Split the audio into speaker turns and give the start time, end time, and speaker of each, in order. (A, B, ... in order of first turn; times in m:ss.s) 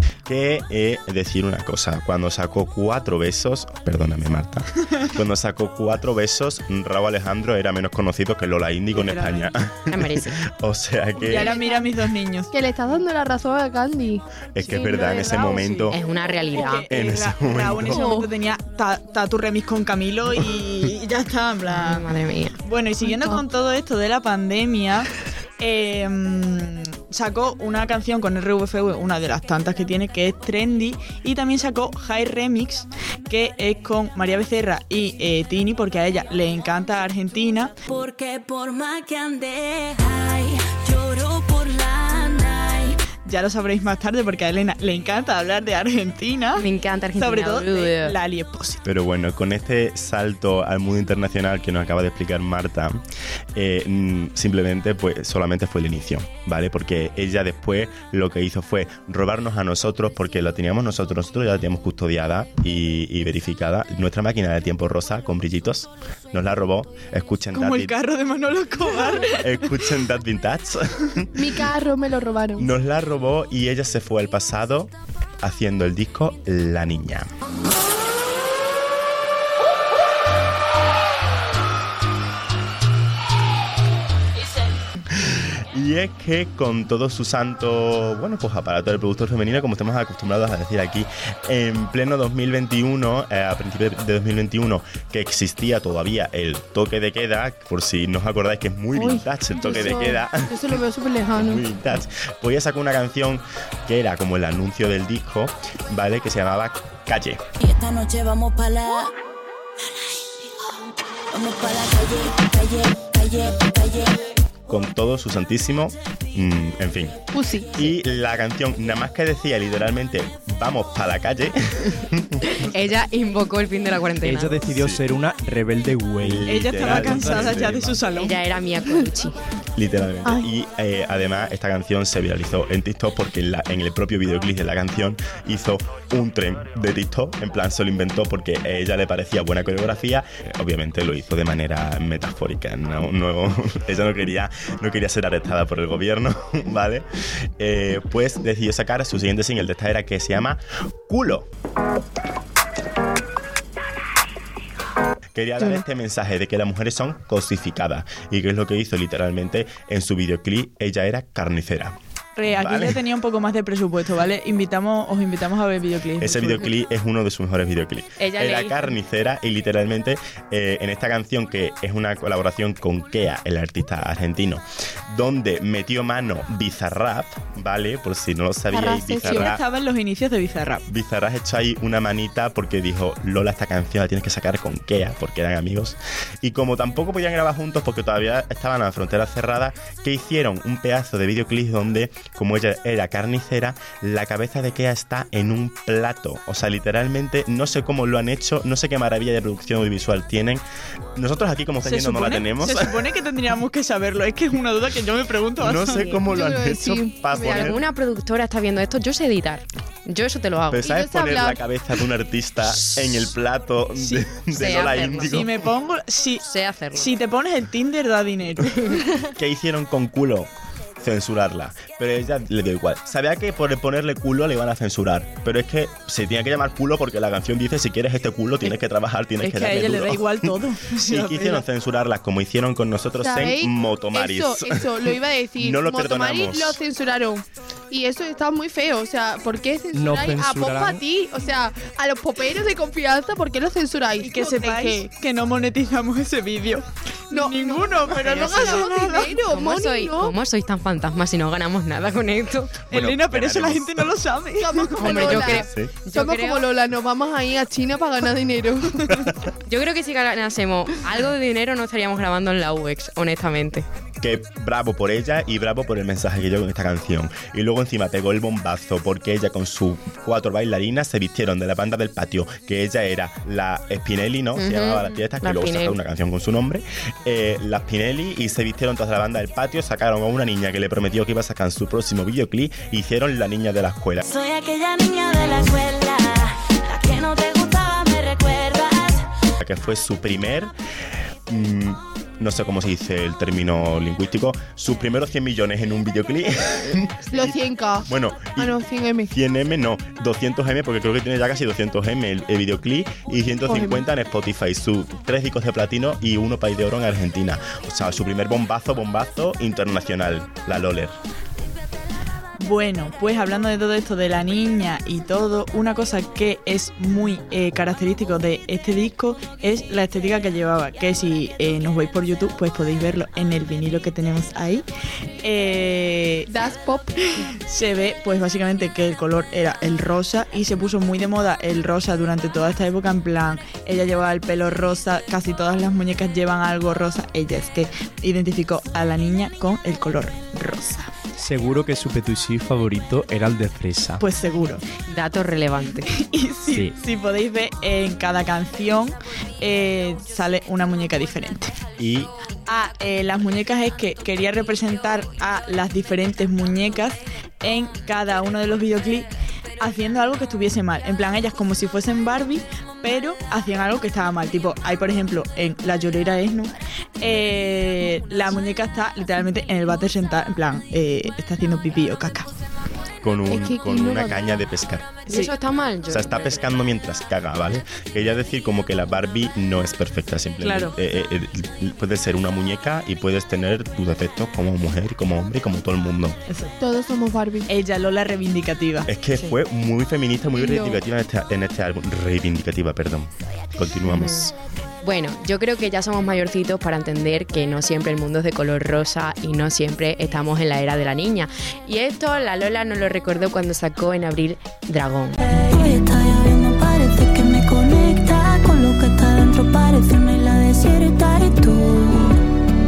0:00.2-0:11.5 A
0:08.9-0:09.5 B
0:09.9-0:10.4 C
0:11.2-0:12.5 B
0:11.2-0:11.9 D
0:12.5-0:15.9 D
0:14.6-0:16.0 A
0:15.9-0:16.9 C
0:16.4-0:22.1 B
0:16.9-0:18.0 A
0:17.8-0:18.3 D
0:21.7-0:22.6 C
0:22.6-0:37.8 B
0:23.0-0:23.4 D
0:37.8-0:43.0 E
0:43.2-0:48.8 B
0:46.6-0:48.1 C
0:48.8-0:53.0 A
0:53.5-1:08.0 A
1:07.5-1:09.5 B
1:09.4-1:11.6 A
1:11.3-1:12.7 D
1:12.6-1:17.3 A
1:25.1-1:40.8 A
1:38.9-1:41.6 D
1:41.3-1:47.4 A
1:47.6-1:49.1 E
1:49.9-1:54.2 E
1:54.7-1:57.2 A
1:57.3-1:57.9 D
1:57.7-2:02.6 A
2:02.5-2:04.7 C
2:04.2-2:08.0 F
2:04.7-2:05.0 A
2:06.2-2:08.0 A
2:06.4-2:08.4 B
2:08.1-2:09.4 C
2:09.7-2:31.5 A
2:35.3-2:41.9 A
2:42.4-2:46.7 B
2:42.5-2:43.0 A
2:46.2-2:59.6 A
2:48.2-2:48.9 C
2:58.7-2:59.5 D
2:59.2-3:00.8 B
3:00.9-3:20.6 A
3:21.1-3:23.0 A
3:21.8-3:26.1 B
3:25.6-3:27.8 A
3:25.9-3:26.2 C
3:26.2-3:27.8 D
3:27.3-3:30.8 C
3:30.7-3:35.7 A
3:30.8-3:31.6 D
3:34.5-3:35.4 C
3:35.2-3:36.4 B
3:36.4-3:37.1 C
3:36.9-3:38.7 B
3:38.6-3:39.0 C
3:39.2-3:56.8 A
3:49.4-3:51.6 B
3:53.2-4:05.0 D
3:59.9-4:01.0 F
4:04.2-4:09.4 B
4:07.3-4:10.3 D
4:09.4-4:12.8 C
4:12.9-4:14.1 A
4:12.9-4:15.4 B
4:14.6-4:19.3 D
4:15.0-4:16.6 C
4:15.2-4:15.9 A
4:19.6-4:23.8 C
4:24.2-4:44.2 A
4:34.6-4:36.0 C
4:44.2-4:49.3 E
4:49.6-4:50.7 A
4:51.5-5:11.1 A
4:57.3-4:59.3 D
5:03.7-5:04.0 D
5:12.6-5:24.8 B
5:25.4-5:26.5 B
5:26.5-5:27.2 D
5:27.3-5:41.1 B
5:41.4-5:44.2 F
5:44.2-5:44.8 B
5:45.0-5:46.1 C
5:46.1-5:51.8 B
5:46.7-5:46.9 F
5:52.0-5:52.3 A
5:52.7-5:59.3 B
5:59.8-6:12.5 B
6:13.2-6:15.3 A
6:13.5-6:14.6 D
6:15.3-6:16.6 C
6:16.1-6:26.4 A
6:20.6-6:20.9 B
6:26.5-6:26.7 B
6:26.8-6:27.7 D
6:27.7-6:29.1 B
6:29.0-6:34.5 A
6:30.5-6:31.0 D
6:34.1-6:34.5 C
6:35.0-6:45.4 C
6:45.4-6:52.4 E